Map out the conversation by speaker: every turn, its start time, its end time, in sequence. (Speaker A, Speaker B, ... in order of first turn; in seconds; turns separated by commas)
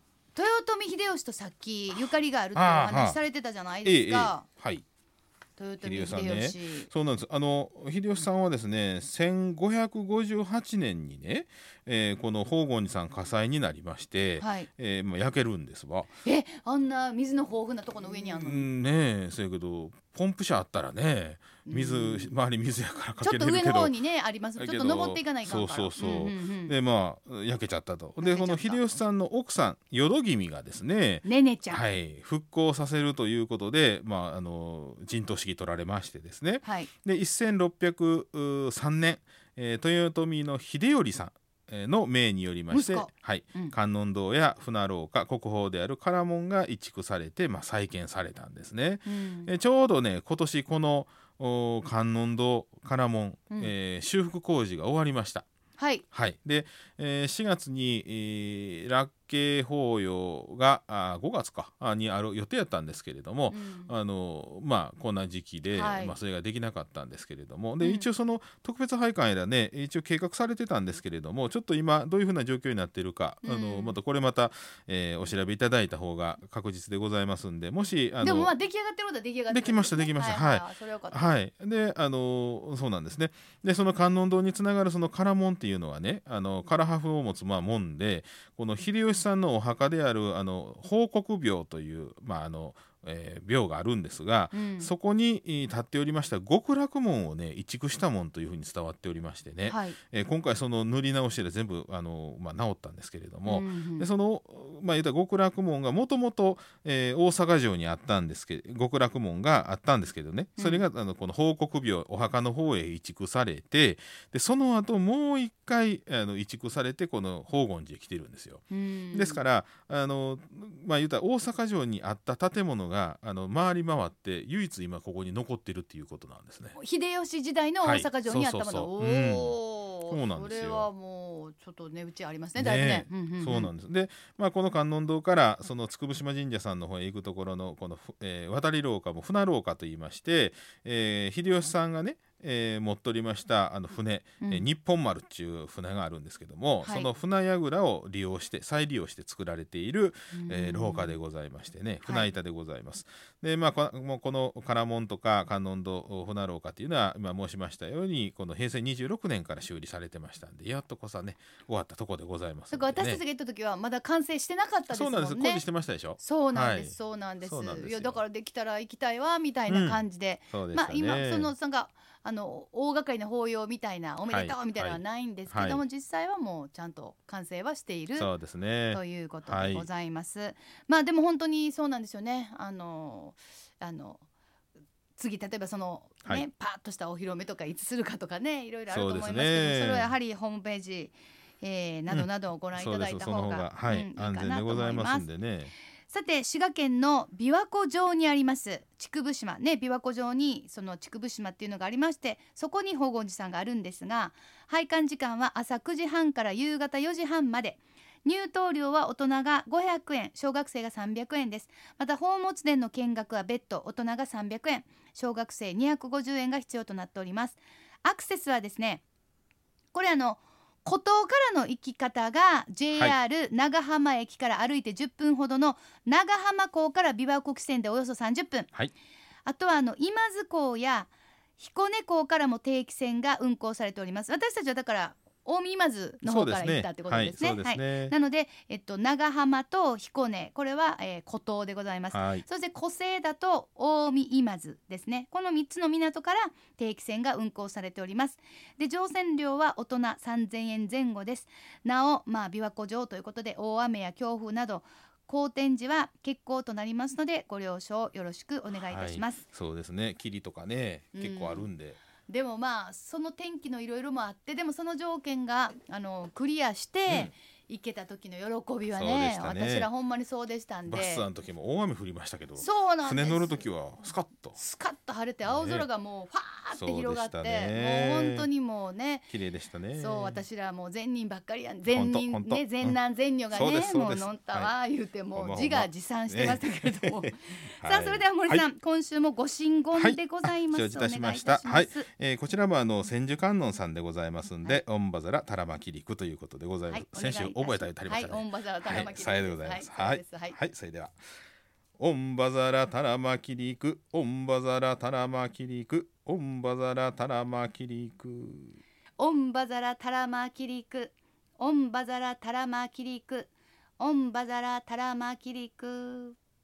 Speaker A: 0.3-4.5, Speaker B: 2.5-3.2, Speaker B: 3.8-4.8, Speaker A: 5.6-6.9, Speaker B: 5.8-16.1, Speaker A: 14.4-14.7, Speaker A: 16.2-18.7, Speaker B: 18.0-24.0, Speaker A: 21.6-22.4, Speaker A: 23.2-26.7, Speaker B: 24.6-55.5, Speaker A: 28.2-29.0, Speaker A: 31.2-31.8, Speaker A: 36.6-36.9, Speaker A: 42.7-43.8, Speaker A: 49.1-49.5, Speaker A: 55.8-56.0, Speaker B: 56.1-78.5, Speaker A: 63.5-63.9, Speaker A: 65.7-66.2, Speaker A: 67.8-68.1, Speaker A: 73.4-74.0, Speaker A: 78.2-81.3, Speaker B: 79.5-126.8, Speaker A: 94.5-94.9, Speaker A: 99.7-100.0, Speaker A: 103.5-104.1, Speaker A: 110.6-110.8, Speaker A: 118.7-119.4, Speaker A: 126.8-133.7, Speaker B: 127.8-130.9, Speaker B: 132.6-163.2, Speaker A: 144.4-144.7, Speaker A: 146.8-147.1, Speaker A: 150.3-151.2, Speaker A: 152.0-152.3, Speaker A: 162.7-165.7, Speaker B: 164.9-168.2, Speaker A: 166.2-178.3, Speaker B: 169.7-171.5, Speaker B: 174.3-175.8, Speaker B: 178.2-179.9, Speaker A: 178.9-184.2, Speaker A: 185.2-195.3, Speaker B: 188.9-190.1, Speaker B: 192.1-195.7, Speaker A: 196.1-219.0, Speaker A: 219.9-228.7, Speaker A: 229.5-259.4, Speaker B: 236.2-238.2, Speaker B: 242.1-242.4, Speaker B: 258.9-262.0, Speaker A: 261.1-261.7, Speaker A: 262.3-271.3, Speaker B: 268.9-269.9, Speaker B: 270.9-274.6, Speaker A: 272.6-273.6, Speaker A: 274.6-279.3, Speaker B: 275.4-275.9, Speaker B: 276.7-278.5, Speaker B: 279.3-280.4, Speaker A: 280.0-292.1, Speaker B: 281.9-283.0, Speaker B: 283.5-284.7, Speaker B: 285.3-288.6, Speaker B: 289.9-301.2, Speaker A: 296.9-300.6, Speaker B: 302.0-308.8, Speaker A: 309.2-316.4